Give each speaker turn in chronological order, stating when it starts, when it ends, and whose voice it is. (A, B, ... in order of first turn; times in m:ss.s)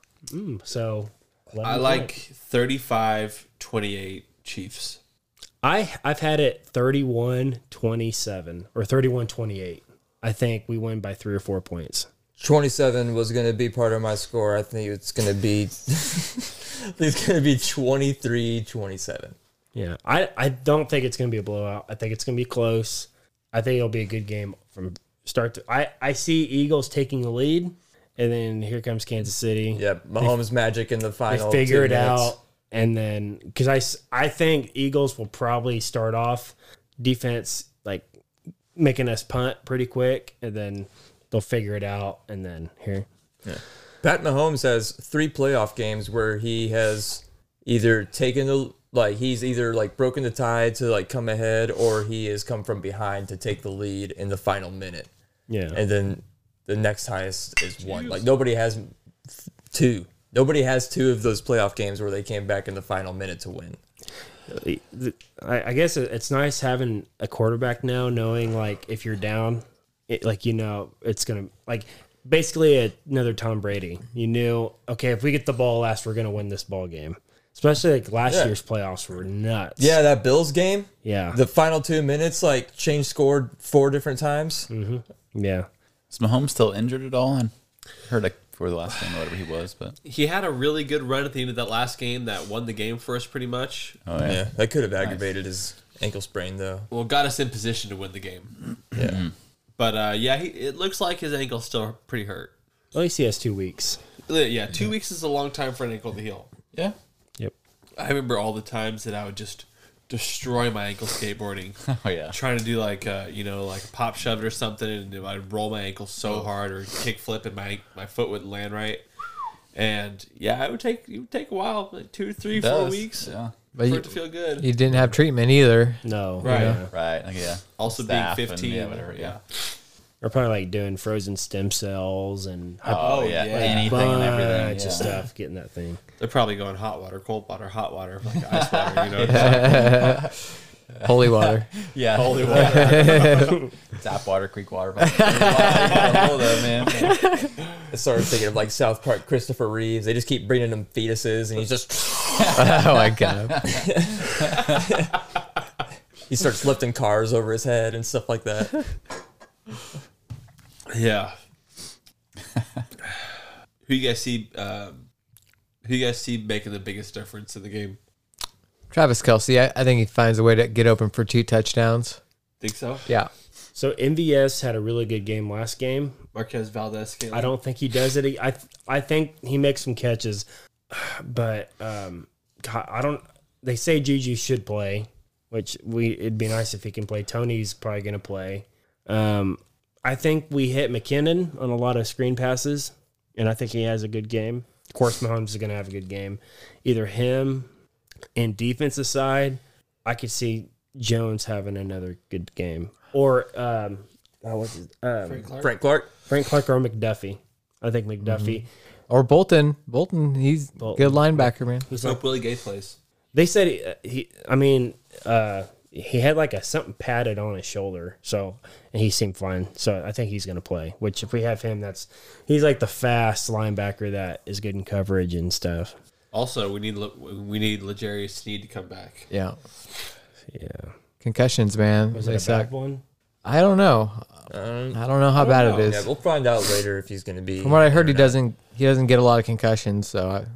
0:00.3-0:02.1 A
0:01.6-0:05.0 B
0:05.6-0:12.1 A
0:12.4-0:19.4 C
0:19.8-0:30.3 A
0:29.7-0:32.4 C
0:31.3-0:38.1 A
0:38.8-0:43.1 A
0:43.4-0:55.1 C
0:55.5-0:55.8 A
0:55.7-1:03.8 C
0:57.8-0:58.2 B
1:04.5-1:20.0 A
1:18.3-1:18.6 C
1:19.8-1:24.7 C
1:21.0-1:21.4 A
1:24.7-1:25.7 A
1:26.1-1:27.5 D
1:28.1-1:30.0 D
1:30.0-1:34.0 B
1:34.1-1:34.5 D
1:34.2-1:36.9 C
1:35.0-1:35.3 D
1:36.9-1:38.5 B
1:39.0-1:39.3 D
1:39.8-1:42.5 B
1:42.9-1:44.0 A
1:44.3-1:46.5 B
1:48.0-1:51.8 B
1:51.8-1:52.4 D
1:52.3-1:59.0 B
1:59.7-2:04.7 B
2:02.5-2:03.5 D
2:03.8-2:06.8 E
2:06.0-2:06.9 A
2:06.4-2:06.8 B
2:06.9-2:09.4 D
2:07.8-2:09.4 B
2:10.2-2:16.0 A
2:12.9-2:15.1 D
2:13.0-2:14.2 B
2:16.2-2:19.9 B
2:18.5-2:20.3 D
2:19.3-2:20.2 E
2:21.0-2:27.2 D
2:21.0-2:21.7 E
2:22.1-2:23.6 B
2:22.5-2:23.5 E
2:25.0-2:26.3 E
2:25.9-2:26.2 B
2:27.0-2:27.5 E
2:27.9-2:32.7 C
2:32.4-2:34.8 D
2:32.6-2:33.5 E
2:33.7-2:35.1 C
2:36.3-2:38.8 C
2:40.9-2:41.4 B
2:43.8-2:45.0 B
2:45.8-2:48.0 B
2:48.9-2:52.2 E
2:52.6-2:53.1 B
2:53.8-2:56.2 A
2:56.3-2:57.5 B
2:57.3-3:17.7 A
3:18.4-3:25.5 A
3:25.2-3:25.7 B
3:25.6-3:26.1 C
3:26.3-3:28.7 A
3:28.3-3:28.5 E
3:29.1-3:31.9 E
3:30.8-3:32.2 A
3:31.9-3:33.0 B
3:33.3-3:45.9 A
3:46.3-3:49.3 B
3:49.3-3:49.6 E
3:50.5-3:50.9 A
3:51.2-3:52.7 E
3:52.1-3:53.0 A
3:53.4-3:56.1 E
3:54.5-3:58.4 C
3:55.4-3:55.9 B
3:57.6-4:00.5 E